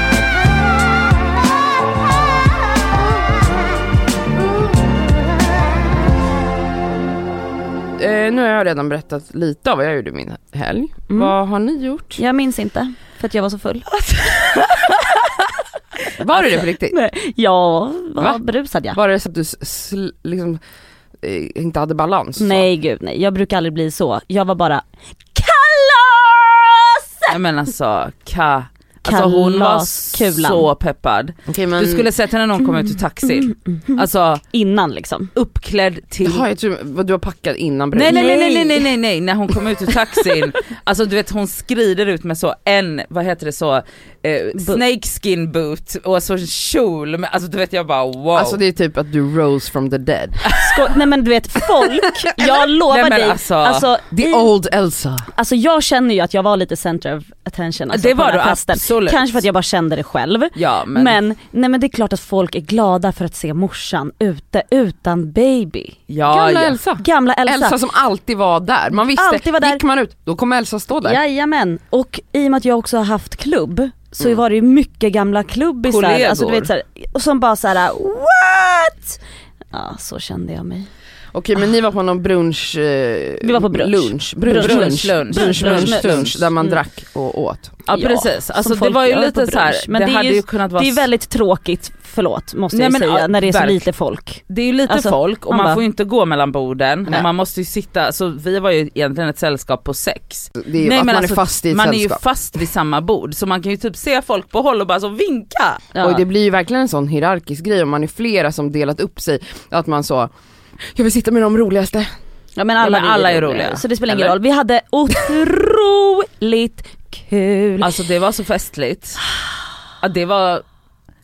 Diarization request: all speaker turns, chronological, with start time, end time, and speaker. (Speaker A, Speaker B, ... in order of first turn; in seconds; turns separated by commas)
Speaker A: 8.0-12.2, Speaker B: 11.1-11.3, Speaker B: 12.2-13.9, Speaker C: 14.0-15.0, Speaker A: 16.2-17.0, Speaker B: 16.9-19.0, Speaker A: 18.9-20.6, Speaker A: 21.2-22.7, Speaker B: 22.4-24.8, Speaker B: 25.4-27.3, Speaker C: 27.3-34.4, Speaker B: 29.1-30.7, Speaker A: 31.5-32.1, Speaker B: 32.7-35.3, Speaker C: 35.4-36.5, Speaker A: 36.2-38.5, Speaker C: 38.0-48.6, Speaker B: 38.1-38.8, Speaker B: 44.6-44.8, Speaker A: 48.3-50.5, Speaker B: 50.5-54.5, Speaker C: 52.9-53.9, Speaker A: 54.1-55.3, Speaker B: 55.4-66.0, Speaker C: 57.9-59.4, Speaker C: 60.5-61.2, Speaker C: 66.1-66.8, Speaker A: 66.3-71.2, Speaker B: 67.0-67.8, Speaker B: 69.1-69.8, Speaker B: 71.0-79.2, Speaker C: 75.9-76.7, Speaker B: 79.7-80.9, Speaker A: 81.3-87.8, Speaker B: 83.4-86.8, Speaker C: 84.5-86.5, Speaker B: 87.9-95.8, Speaker C: 87.9-91.1, Speaker C: 92.7-93.9, Speaker C: 94.5-105.9, Speaker A: 100.6-102.2, Speaker B: 105.9-106.2, Speaker A: 106.0-110.3, Speaker A: 110.9-112.1, Speaker B: 112.6-117.9, Speaker C: 112.8-114.3, Speaker C: 117.8-119.2, Speaker C: 120.0-120.7